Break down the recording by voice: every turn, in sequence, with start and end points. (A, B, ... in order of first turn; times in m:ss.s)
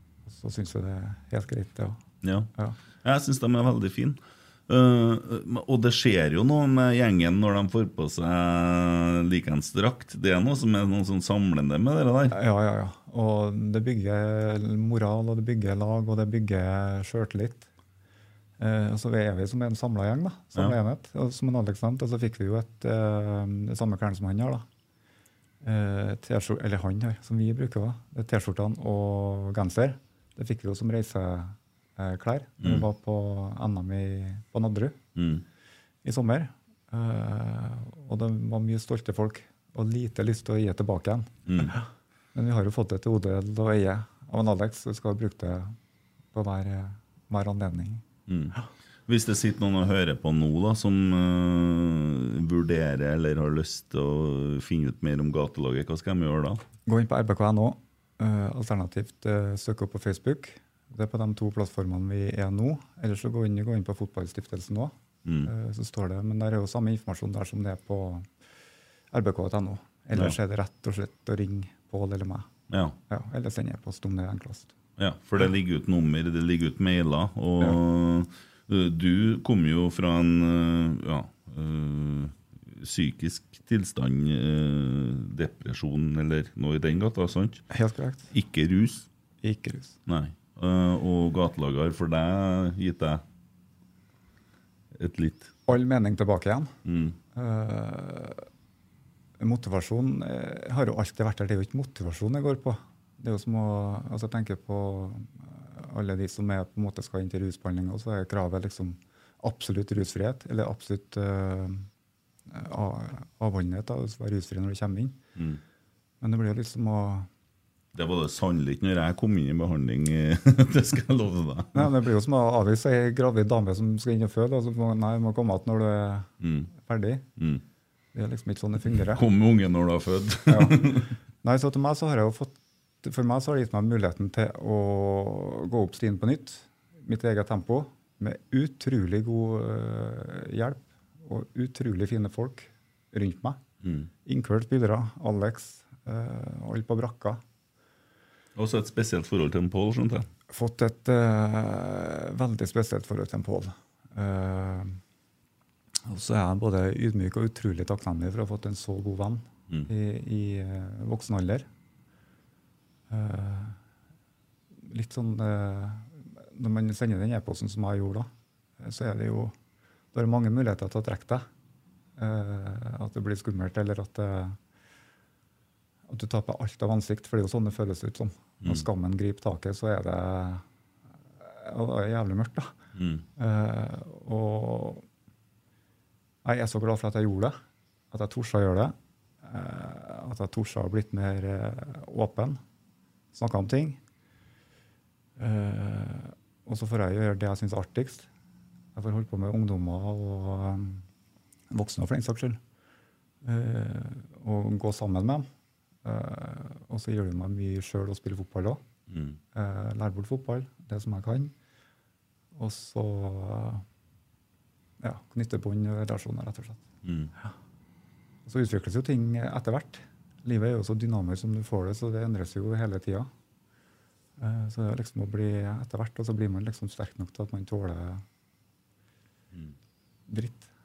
0:00.3-0:02.0 A
0:02.2-0:02.5 B
0:03.0-0:12.4 B
0:12.3-0:17.7 A
0:18.6-0:24.6 A
0:25.6-0:35.0 A
0:35.2-0:35.4 B
0:36.0-0:41.8 A
0:41.5-0:41.8 B
0:42.3-0:45.8 A
0:46.3-0:48.0 A
0:48.3-0:48.6 B
0:49.1-0:56.6 B
0:56.8-1:04.9 A
1:05.2-1:05.5 B
1:05.4-1:08.3 A
1:09.1-1:12.5 A
1:12.7-1:13.0 B
1:13.1-1:14.7 A
1:15.0-1:27.6 B
1:27.7-1:28.3 A
1:28.3-1:29.1 B
1:29.4-1:29.9 A
1:30.1-1:33.2 B
1:35.0-1:35.5 B
1:35.7-1:36.7 A
1:36.8-1:37.2 B
1:37.3-1:38.4 A
1:39.4-1:51.9 A
1:52.5-1:55.2 A
1:56.2-1:57.3 A
1:57.9-2:01.9 B
2:01.7-2:07.2 A
2:06.4-2:06.7 B
2:08.1-2:09.2 A
2:09.0-2:11.1 B
2:10.5-2:23.6 A
2:23.8-2:24.1 B
2:24.2-2:27.4 A
2:28.6-2:30.2 B
2:30.5-2:35.0 A
2:36.0-2:41.6 A
2:43.1-2:43.8 A
2:44.8-2:48.3 A
2:48.8-2:49.5 A
2:50.1-2:51.4 A
2:52.2-2:54.6 A
2:56.1-3:00.6 A
3:01.4-3:02.7 A
3:03.0-3:03.2 B
3:03.4-3:05.0 A
3:06.4-3:07.5 A
3:08.1-3:12.6 A
3:13.3-3:14.0 A
3:15.4-3:18.3 A
3:18.9-3:21.0 A
3:21.7-3:22.6 A
3:23.4-3:25.4 A
3:26.0-3:28.8 A
3:29.1-3:29.4 B
3:29.5-3:31.5 A
3:32.5-3:33.8 A
3:35.0-3:36.8 A
3:37.0-3:37.3 B
3:38.4-3:43.3 A
3:44.4-3:48.2 A
3:50.3-3:50.7 A